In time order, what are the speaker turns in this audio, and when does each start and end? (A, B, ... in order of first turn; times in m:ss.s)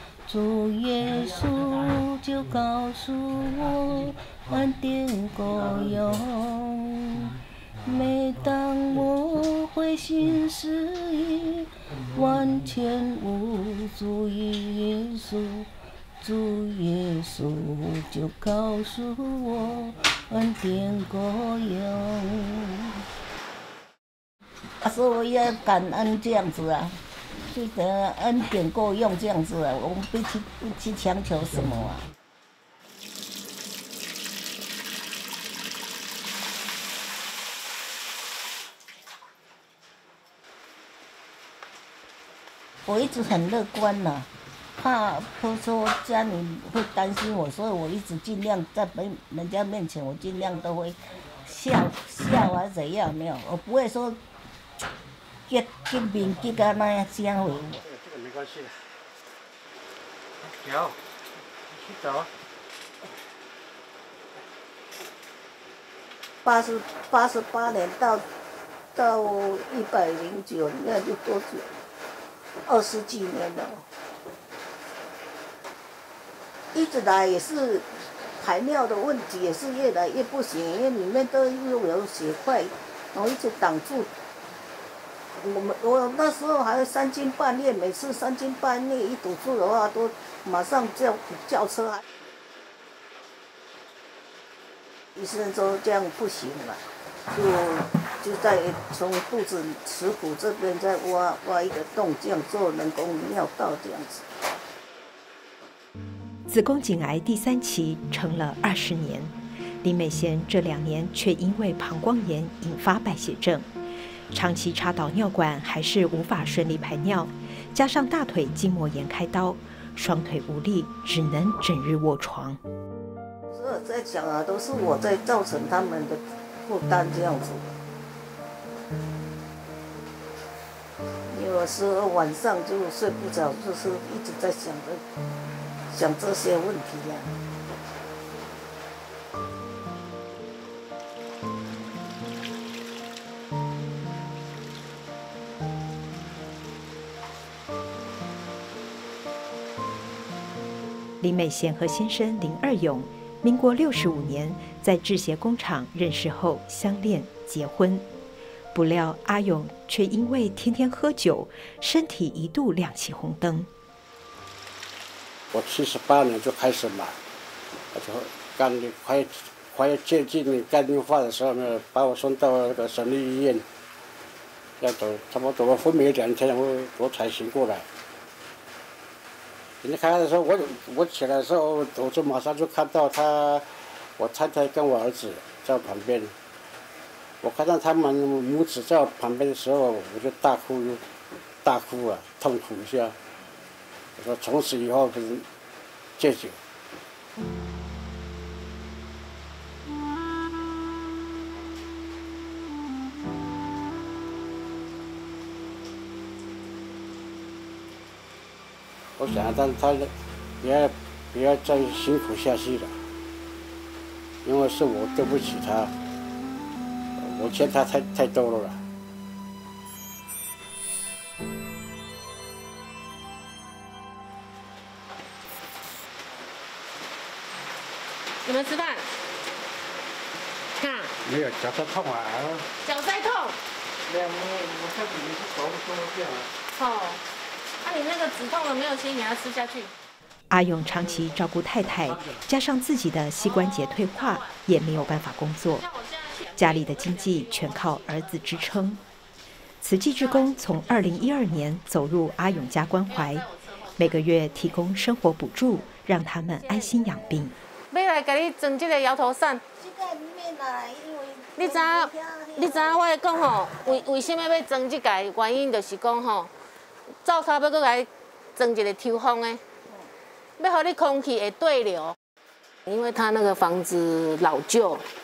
0:00.3-0:15.7 A
0:16.2-0:22.9 A
0:24.8-0:32.0 A
0:42.9-0:54.2 A
0:55.5-0:57.8 A
0:57.8-0:59.0 B
1:00.4-1:01.0 B
1:01.7-1:02.3 B
1:06.4-1:08.2 A
1:08.9-1:11.8 A
1:12.7-1:13.8 A
1:16.7-1:24.1 A
1:25.4-1:32.0 A
1:35.2-1:44.2 A
1:46.5-1:53.7 C
1:54.3-2:02.6 C
2:03.5-2:07.8 A
2:11.3-2:15.0 A
2:15.9-2:17.3 A
2:31.2-2:38.0 C
2:38.7-2:43.7 C
2:45.5-2:47.2 B
2:47.9-2:53.6 B
2:54.8-2:57.8 B
2:59.8-3:03.7 B
3:04.2-3:06.3 B
3:07.4-3:11.0 B
3:11.6-3:13.1 B
3:14.2-3:15.4 B
3:16.2-3:16.6 B
3:29.2-3:33.0 B
3:34.4-3:35.9 B
3:37.2-3:38.8 B
3:48.4-3:49.1 D
3:50.8-3:51.1 D
3:51.2-3:52.7 B
3:52.8-3:53.6 D
3:54.1-3:56.4 B
3:56.7-3:57.2 D
3:57.8-3:59.9 D
4:00.5-4:05.9 C
4:06.6-4:09.0 C
4:09.8-4:17.6 C
4:17.9-4:19.6 D
4:19.8-4:23.0 A
4:21.6-4:26.5 D
4:27.2-4:29.6 D
4:30.6-4:32.2 D
4:32.9-4:35.0 D